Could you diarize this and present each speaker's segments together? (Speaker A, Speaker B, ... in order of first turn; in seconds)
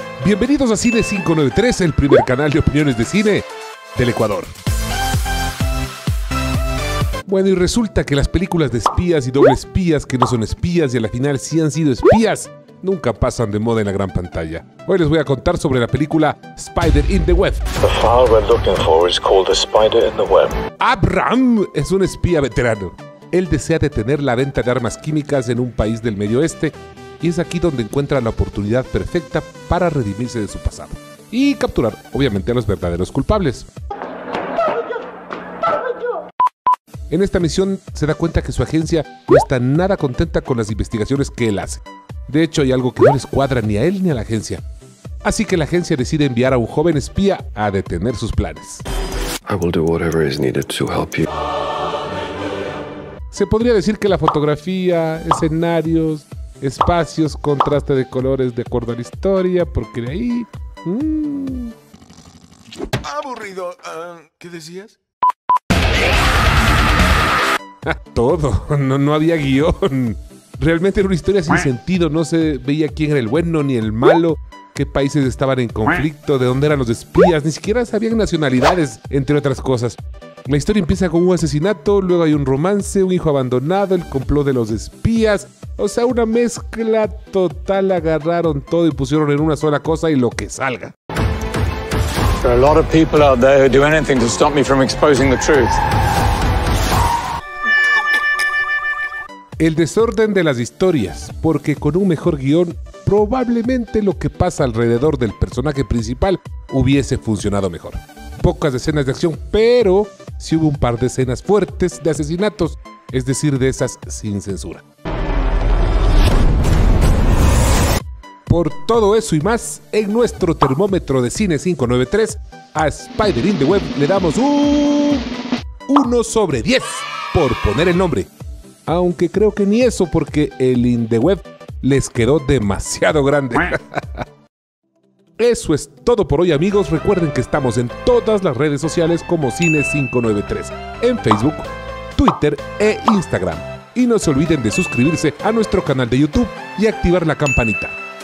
Speaker A: 0.2-4.5, 7.2-17.6, 20.8-33.7, 37.1-44.6, 45.2-48.8, 53.3-61.7, 67.8-90.9, 99.6-114.8, 118.5-125.3, 125.9-128.3, 128.9-134.2, 135.4-148.0
Speaker B: 17.8-20.6, 49.5-51.3
Speaker C: 63.0-65.0
Speaker D: 92.4-95.8